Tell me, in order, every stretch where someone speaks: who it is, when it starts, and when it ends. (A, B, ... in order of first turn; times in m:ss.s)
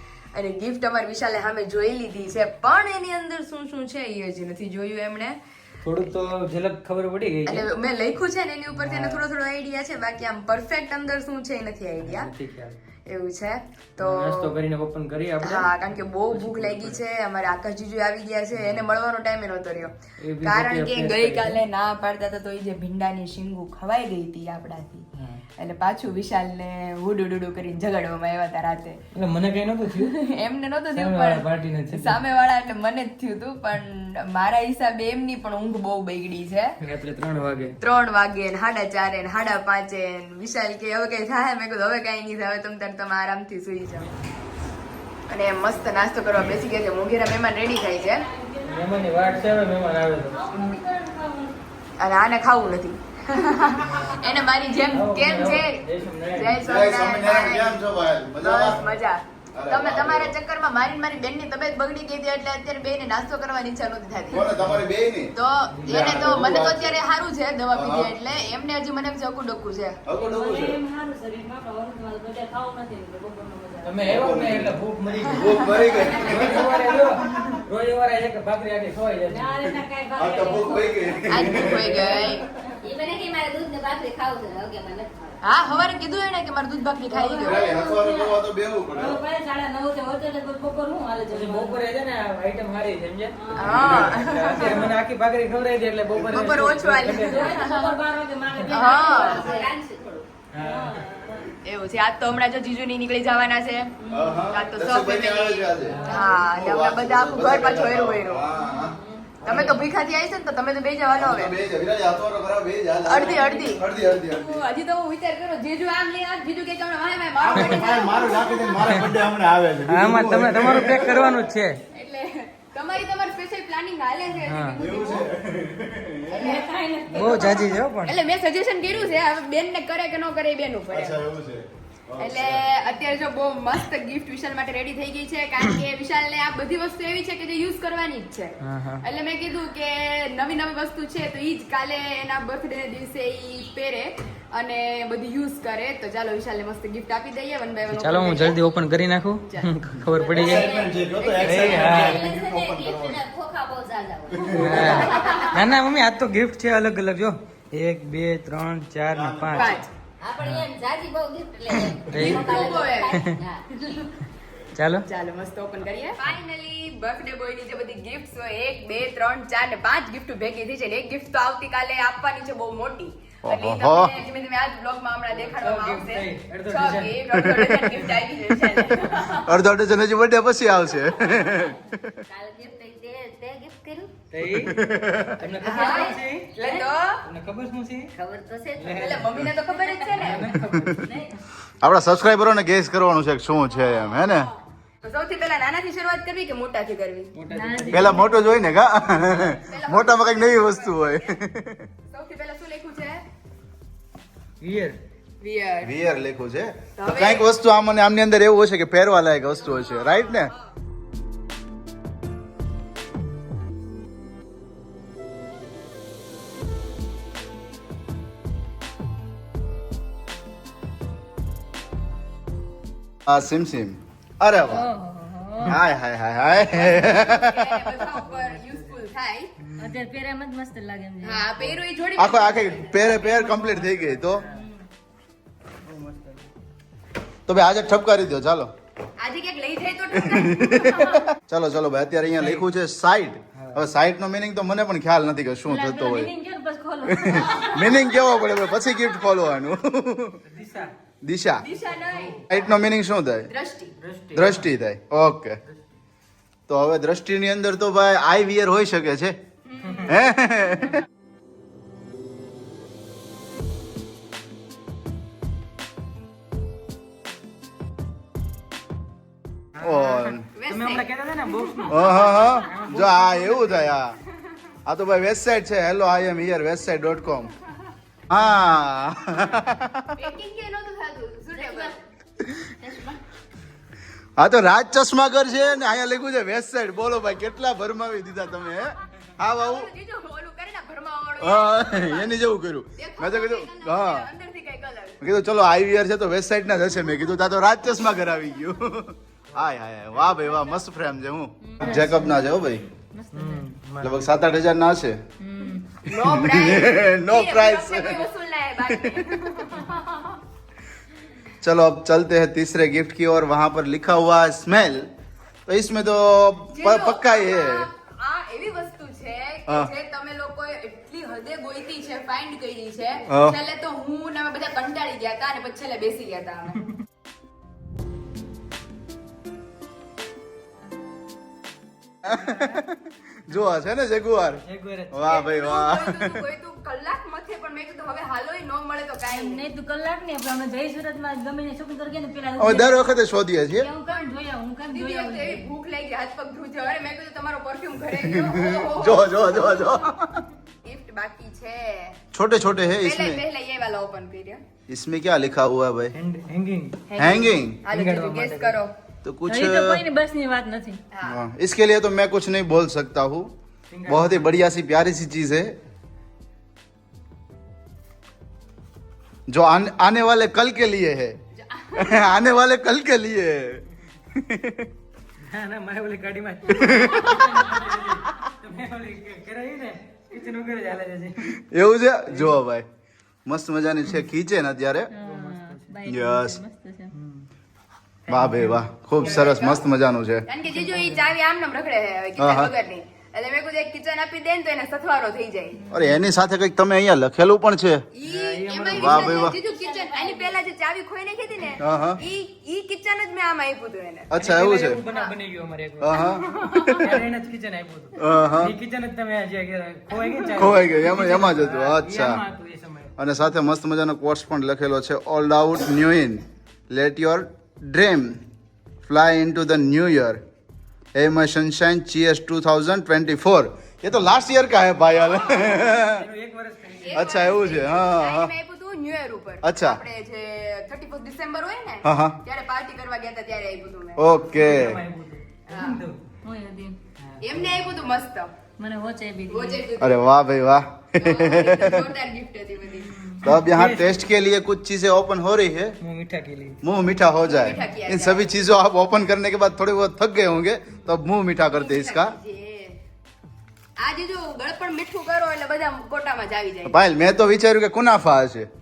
0:00.3-0:05.4 A
0:05.8-0:07.7 B
0:07.4-0:12.3 A
0:08.7-0:09.3 B
0:12.0-0:12.8 B
0:13.0-0:14.6 A
0:14.0-0:15.7 B
0:15.4-0:29.0 A
0:16.3-0:17.0 B
0:18.5-0:18.9 B
0:20.2-0:21.6 B
0:25.2-0:25.4 B
0:29.1-0:30.2 B
0:30.0-0:36.8 A
0:30.9-0:32.2 B
0:36.8-0:37.8 B
0:37.8-0:44.1 A
0:45.3-0:48.3 A
0:47.7-0:49.5 C
0:48.6-0:50.4 B
0:50.3-0:51.5 C
0:50.5-0:50.8 A
0:52.0-0:57.8 A
0:53.8-0:54.3 B
0:54.9-0:56.6 B
0:56.6-0:58.8 D
0:58.4-1:04.5 A
0:59.5-1:00.3 D
1:04.3-1:05.3 D
1:05.3-1:10.0 A
1:05.7-1:06.4 B
1:05.8-1:07.0 D
1:07.7-1:08.2 D
1:10.0-1:10.8 D
1:10.2-1:14.5 C
1:13.8-1:19.8 B
1:14.0-1:16.6 D
1:15.3-1:16.1 A
1:15.9-1:17.1 C
1:19.3-1:21.6 C
1:20.2-1:22.1 D
1:21.3-1:22.4 A
1:21.7-1:22.2 B
1:22.8-1:25.3 E
1:25.4-1:27.8 A
1:27.0-1:28.4 C
1:27.4-1:29.2 D
1:28.9-1:31.8 C
1:31.3-1:37.7 B
1:33.4-1:34.9 C
1:33.6-1:34.9 A
1:36.2-1:38.0 A
1:37.0-1:39.7 C
1:38.6-1:38.8 B
1:38.7-1:39.6 A
1:39.0-1:40.2 E
1:40.5-1:41.1 B
1:40.6-1:41.5 C
1:41.6-1:43.9 A
1:44.0-1:44.4 C
1:44.1-1:49.0 D
1:44.5-1:48.4 A
1:45.9-1:46.2 B
1:45.9-1:46.5 C
1:48.6-1:49.3 C
1:49.4-1:51.5 A
1:49.4-1:49.8 B
1:51.1-1:54.6 D
1:53.0-1:58.7 A
1:57.4-2:01.4 D
1:58.8-1:59.1 B
1:59.9-2:01.8 B
2:01.9-2:05.3 A
2:04.4-2:04.8 B
2:04.7-2:06.6 D
2:06.3-2:07.7 C
2:07.1-2:08.2 B
2:08.0-2:11.2 A
2:10.9-2:12.6 D
2:12.2-2:28.6 A
2:18.6-2:19.0 B
2:27.9-2:30.8 B
2:30.1-2:35.6 E
2:30.3-2:33.2 D
2:31.2-2:32.3 A
2:31.4-2:32.2 B
2:34.3-2:34.9 D
2:34.6-2:39.8 B
2:34.8-2:35.5 A
2:39.1-2:39.8 D
2:39.5-2:39.9 A
2:40.2-2:44.0 E
2:40.4-2:40.7 B
2:41.7-2:43.4 B
2:42.1-2:43.3 A
2:44.7-2:45.0 B
2:45.0-2:59.5 A
2:53.4-2:54.2 D
2:55.4-2:57.2 B
2:57.4-2:57.9 D
2:59.4-3:02.1 D
3:01.2-3:01.7 E
3:02.2-3:04.1 E
3:04.3-3:04.8 B
3:04.6-3:05.5 D
3:05.4-3:06.6 B
3:05.6-3:07.2 A
3:07.2-3:08.1 B
3:08.1-3:09.3 E
3:08.8-3:09.3 B
3:08.9-3:10.5 A
3:10.2-3:11.1 B
3:10.7-3:11.0 D
3:11.8-3:14.5 D
3:15.0-3:17.3 A
3:17.3-3:18.3 B
3:17.5-3:18.5 C
3:17.9-3:21.9 D
3:19.3-3:19.6 B
3:19.6-3:21.4 A
3:22.0-3:23.2 A
3:24.6-3:25.0 B
3:25.4-3:26.0 A
3:25.8-3:30.5 D
3:27.0-3:27.5 A
3:29.6-3:30.6 A
3:43.2-3:44.9 D
3:44.7-3:45.8 C
3:45.6-3:47.9 D
3:46.6-3:49.5 A
3:48.3-3:48.8 B
3:49.6-3:50.0 B
3:49.8-3:51.5 C
3:51.2-3:53.2 A
3:52.2-3:54.4 D
3:53.2-3:54.6 B
3:55.8-3:56.4 B
3:57.5-3:58.7 D
3:59.2-4:01.3 A
4:00.1-4:06.3 D
4:02.4-4:02.6 B
4:03.5-4:03.9 B
4:05.6-4:08.2 C
4:07.0-4:10.4 D
4:10.4-4:10.9 B
4:11.2-4:11.6 D
4:11.6-4:12.5 A
4:11.9-4:12.4 B
4:12.5-4:13.5 D
4:13.5-4:13.9 A
4:14.0-4:14.7 B
4:14.3-4:15.6 D
4:16.7-4:19.3 D
4:19.7-4:20.2 A
4:19.8-4:20.2 B
4:20.1-4:21.0 D
4:29.8-4:33.9 B
4:29.8-4:30.4 D
4:30.5-4:31.1 A
4:31.9-4:34.2 D
4:34.8-4:37.5 D
4:38.3-4:40.1 D
4:40.2-4:42.0 A
4:42.8-4:43.1 E
4:44.4-4:49.9 D
4:49.4-4:52.4 A
4:51.4-4:54.3 D
4:53.0-4:55.2 A
4:55.2-5:02.8 D
5:01.6-5:02.4 C
5:03.1-5:03.7 C
5:03.3-5:04.3 B
5:04.0-5:05.2 D
5:05.4-5:06.0 C
5:06.0-5:10.2 A
5:06.1-5:08.3 D
5:08.9-5:09.5 D
5:11.6-5:15.1 D
5:15.6-5:17.9 D
5:16.7-5:26.8 A
5:23.3-5:23.6 D
5:32.2-5:32.8 B
5:32.2-5:32.9 D
5:33.5-5:36.4 D
5:34.6-5:35.4 B
5:35.2-5:39.6 A
5:39.3-5:43.1 C
5:42.6-5:43.9 D
5:43.7-5:45.6 C
5:44.9-5:49.8 A
5:48.1-5:50.4 D
5:50.8-5:52.2 A
5:52.3-5:53.4 D
5:53.0-5:54.6 A
5:54.9-5:56.1 D
5:56.2-5:57.0 B
5:57.1-5:58.9 A
5:57.2-5:57.8 D
5:57.8-5:58.8 B
5:59.2-6:00.0 D
5:59.5-6:01.0 C
6:01.1-6:01.4 A
6:01.2-6:03.5 D
6:03.9-6:04.6 B
6:04.0-6:05.7 D
6:09.5-6:11.4 D
6:11.6-6:12.4 A
6:11.9-6:14.9 D
6:15.4-6:21.6 B
6:16.7-6:17.5 D
6:21.6-6:22.9 D
6:23.4-6:25.1 D
6:25.1-6:27.1 C
6:25.2-6:25.9 B
6:26.0-6:26.6 D
6:27.1-6:27.5 B
6:28.3-6:28.9 B
6:28.3-6:30.4 D
6:29.2-6:29.8 A
6:30.5-6:35.8 A
6:30.7-6:31.2 B
6:32.4-6:32.7 D
6:35.8-6:36.2 C
6:35.9-6:38.0 D
6:38.1-6:44.3 A
6:38.2-6:39.4 B
6:38.9-6:39.6 D
6:39.4-6:40.6 C
6:41.8-6:42.2 D
6:44.3-6:45.0 D
6:44.4-6:46.2 B
6:45.1-6:45.3 A
6:46.0-6:47.1 D
6:46.4-6:47.0 A
6:46.9-6:53.1 B
6:48.2-6:48.7 D
6:50.6-6:52.4 D
6:53.2-6:58.4 D
6:59.0-7:00.4 D
7:01.1-7:06.2 D
7:05.4-7:05.8 A
7:05.8-7:07.4 B
7:07.0-7:14.2 A
7:07.1-7:08.5 D
7:09.6-7:10.0 D
7:12.0-7:12.4 D
7:14.2-7:15.0 D
7:14.5-7:16.2 B
7:15.7-7:16.0 A
7:16.4-7:17.0 C
7:17.2-7:17.7 B
7:17.4-7:18.5 A
7:18.8-7:19.9 C
7:19.5-7:20.3 A
7:20.0-7:22.1 D
7:21.2-7:23.2 A
7:23.4-7:26.0 D
7:23.4-7:24.1 B
7:26.0-7:26.8 B
7:26.8-7:32.4 D
7:27.4-7:28.5 A
7:31.7-7:33.0 A
7:34.0-7:37.0 A
7:36.8-7:38.7 D